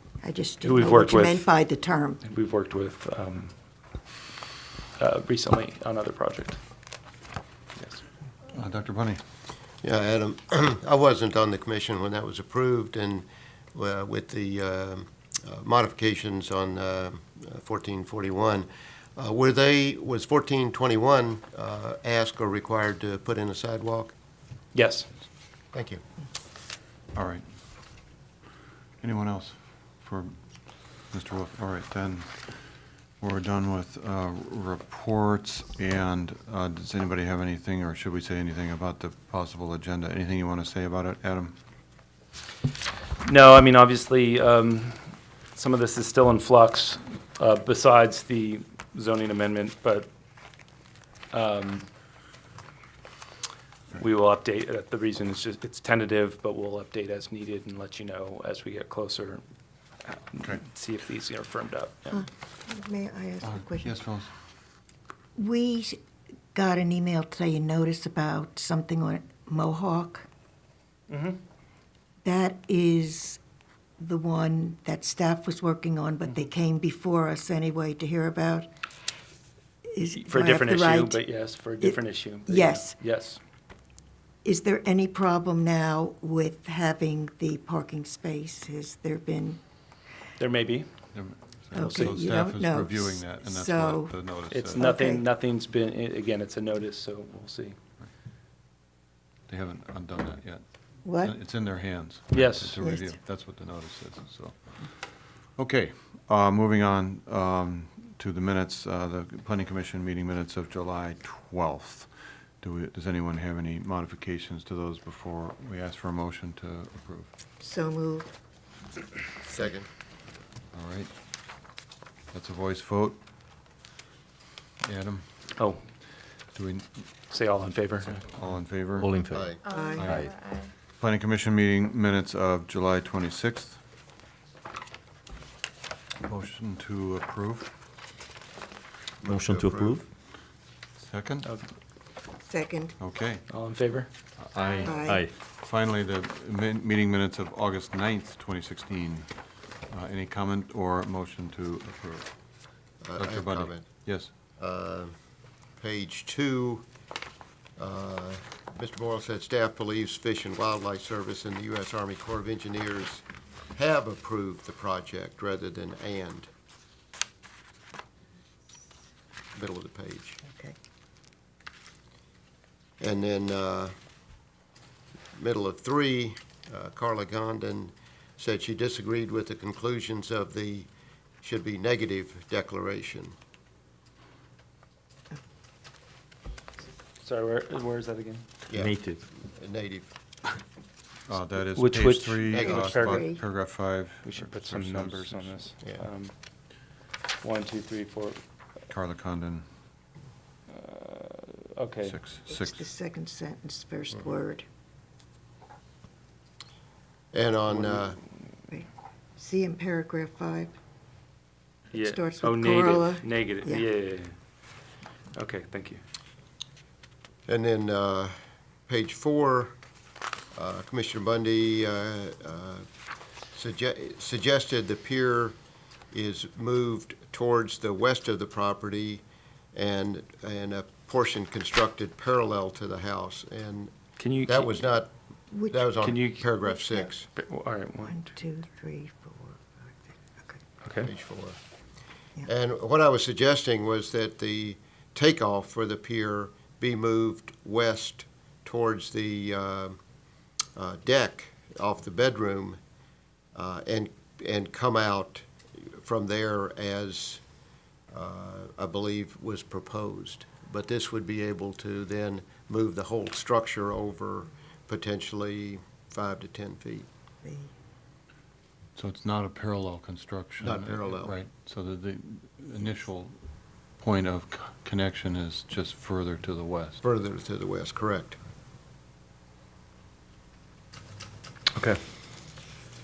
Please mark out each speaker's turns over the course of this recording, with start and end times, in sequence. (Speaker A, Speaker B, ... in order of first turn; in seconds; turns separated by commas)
Speaker A: 0.2-2.2, Speaker B: 0.6-1.5, Speaker B: 2.2-3.5, Speaker B: 5.0-6.6, Speaker B: 7.8-8.0, Speaker C: 8.5-9.2, Speaker D: 9.8-24.1, Speaker B: 24.7-25.1, Speaker D: 25.7-26.0, Speaker C: 27.1-27.4, Speaker C: 29.0-30.3, Speaker C: 31.1-32.5, Speaker C: 33.2-41.6, Speaker B: 43.2-50.1, Speaker B: 51.3-51.9, Speaker B: 54.0-59.4, Speaker B: 60.0-62.2, Speaker A: 62.1-63.9, Speaker C: 63.4-64.3, Speaker A: 65.3-66.0, Speaker A: 66.5-70.3, Speaker B: 71.1-71.4, Speaker A: 72.2-73.4, Speaker A: 74.0-78.7, Speaker A: 79.9-81.2, Speaker B: 80.2-83.4, Speaker A: 81.8-83.0, Speaker A: 84.4-89.6, Speaker B: 90.4-90.9, Speaker C: 91.1-94.8, Speaker A: 91.7-94.2, Speaker B: 94.5-97.8, Speaker A: 94.7-95.2, Speaker C: 99.5-117.3, Speaker A: 101.0-101.3, Speaker B: 102.3-102.8, Speaker A: 102.8-103.1, Speaker A: 117.6-118.3, Speaker D: 119.4-119.9, Speaker C: 120.7-121.1, Speaker C: 122.3-123.2, Speaker C: 124.8-125.3, Speaker C: 126.5-126.9, Speaker B: 127.3-128.1, Speaker C: 128.0-129.1, Speaker E: 129.0-130.4, Speaker D: 129.3-129.6, Speaker A: 129.7-130.3, Speaker C: 130.0-130.4, Speaker C: 130.9-133.8, Speaker C: 136.2-137.7, Speaker D: 139.2-140.0, Speaker E: 139.2-140.1, Speaker C: 141.0-141.5, Speaker A: 142.4-142.9, Speaker C: 143.0-143.6, Speaker B: 143.5-144.1, Speaker C: 144.4-149.3, Speaker A: 144.8-145.2, Speaker E: 145.0-145.3, Speaker C: 149.9-152.5, Speaker D: 153.0-153.9, Speaker C: 153.2-154.3, Speaker D: 154.6-155.1, Speaker D: 155.8-156.8, Speaker D: 157.8-166.5, Speaker D: 169.5-170.4, Speaker A: 170.4-170.7, Speaker D: 173.0-173.9, Speaker D: 175.3-180.9, Speaker D: 181.4-183.3, Speaker B: 187.2-188.4, Speaker D: 188.7-190.1, Speaker E: 188.7-189.2, Speaker C: 191.3-195.6, Speaker B: 191.7-193.3, Speaker D: 192.5-193.1, Speaker A: 192.7-193.4, Speaker B: 194.2-196.3, Speaker D: 195.8-196.1, Speaker B: 197.4-198.4, Speaker C: 198.9-199.7, Speaker B: 200.7-202.1, Speaker C: 202.0-202.9, Speaker A: 202.5-204.6, Speaker D: 207.3-208.2, Speaker B: 207.7-208.1, Speaker A: 208.7-210.7, Speaker B: 211.9-214.3, Speaker A: 211.9-213.8, Speaker B: 215.3-216.0, Speaker D: 217.5-218.3, Speaker D: 218.9-219.7, Speaker D: 220.5-222.8, Speaker D: 223.5-225.6, Speaker D: 226.1-229.2, Speaker D: 229.7-233.9, Speaker B: 234.2-234.8, Speaker D: 234.4-235.1, Speaker A: 235.5-236.0, Speaker D: 235.7-237.3, Speaker B: 236.0-236.4, Speaker A: 236.6-237.1, Speaker B: 237.3-238.2, Speaker A: 238.0-240.6, Speaker B: 240.8-241.1, Speaker D: 241.0-241.6, Speaker D: 242.4-250.0, Speaker D: 250.8-252.8, Speaker D: 253.5-257.4, Speaker D: 258.1-267.1, Speaker A: 267.4-267.7, Speaker C: 268.9-273.4, Speaker D: 270.6-271.3, Speaker C: 274.0-277.0, Speaker D: 277.0-278.4